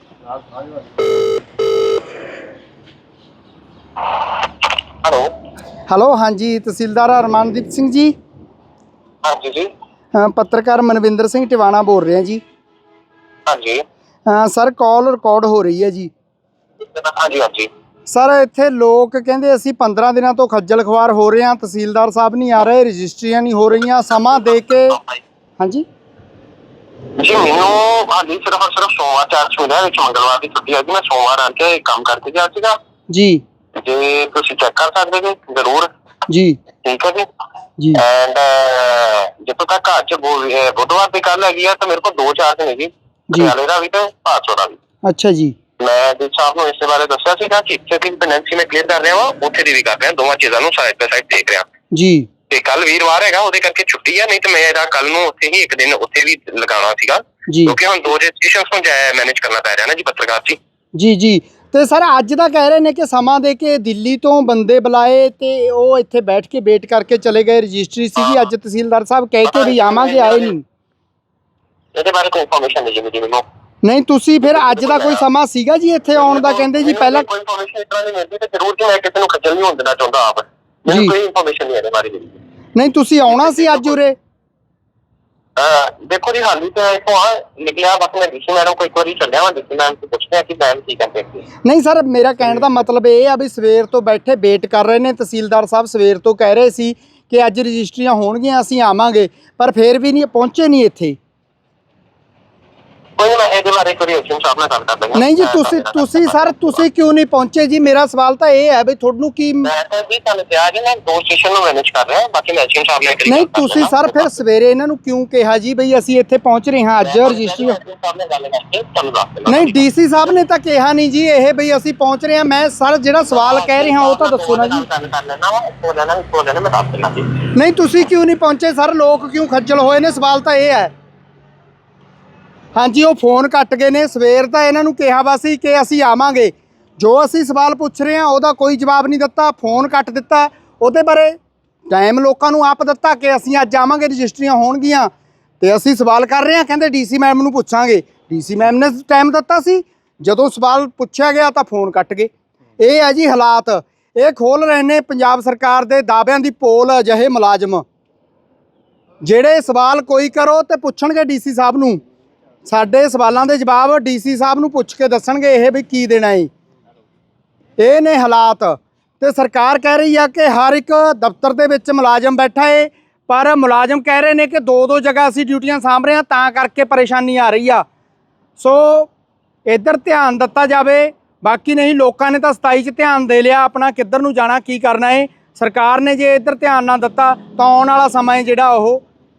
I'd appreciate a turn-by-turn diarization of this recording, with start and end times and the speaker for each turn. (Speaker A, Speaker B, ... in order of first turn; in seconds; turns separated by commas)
Speaker A: 5.0-5.3, Speaker B: 5.9-8.1, Speaker A: 9.2-9.7, Speaker B: 10.1-12.4, Speaker A: 13.5-13.8, Speaker B: 14.3-16.1, Speaker A: 16.9-17.7, Speaker B: 18.1-25.0, Speaker B: 25.6-25.9, Speaker A: 27.2-32.8, Speaker B: 33.1-33.4, Speaker A: 33.8-35.9, Speaker B: 36.3-36.6, Speaker A: 36.8-37.3, Speaker B: 37.8-38.0, Speaker A: 38.0-44.8, Speaker B: 45.0-45.6, Speaker A: 45.8-51.7, Speaker B: 51.9-52.3, Speaker A: 52.5-60.6, Speaker B: 57.5-57.8, Speaker B: 61.0-70.6, Speaker A: 68.2-68.5, Speaker A: 69.5-70.5, Speaker A: 71.9-73.5, Speaker B: 73.8-77.3, Speaker A: 74.5-75.2, Speaker A: 76.2-82.4, Speaker B: 80.9-81.2, Speaker B: 82.8-84.2, Speaker A: 83.3-84.0, Speaker A: 85.6-91.4, Speaker B: 91.6-101.2, Speaker A: 103.2-106.8, Speaker B: 105.2-109.7, Speaker A: 109.7-114.3, Speaker B: 113.2-117.8, Speaker A: 117.0-119.8, Speaker B: 119.5-124.8, Speaker A: 123.3-127.5, Speaker B: 127.6-130.9, Speaker B: 132.8-141.4, Speaker B: 141.9-157.8, Speaker B: 159.2-162.0, Speaker B: 162.7-166.5, Speaker B: 167.8-177.8, Speaker B: 178.6-179.1, Speaker B: 179.7-189.0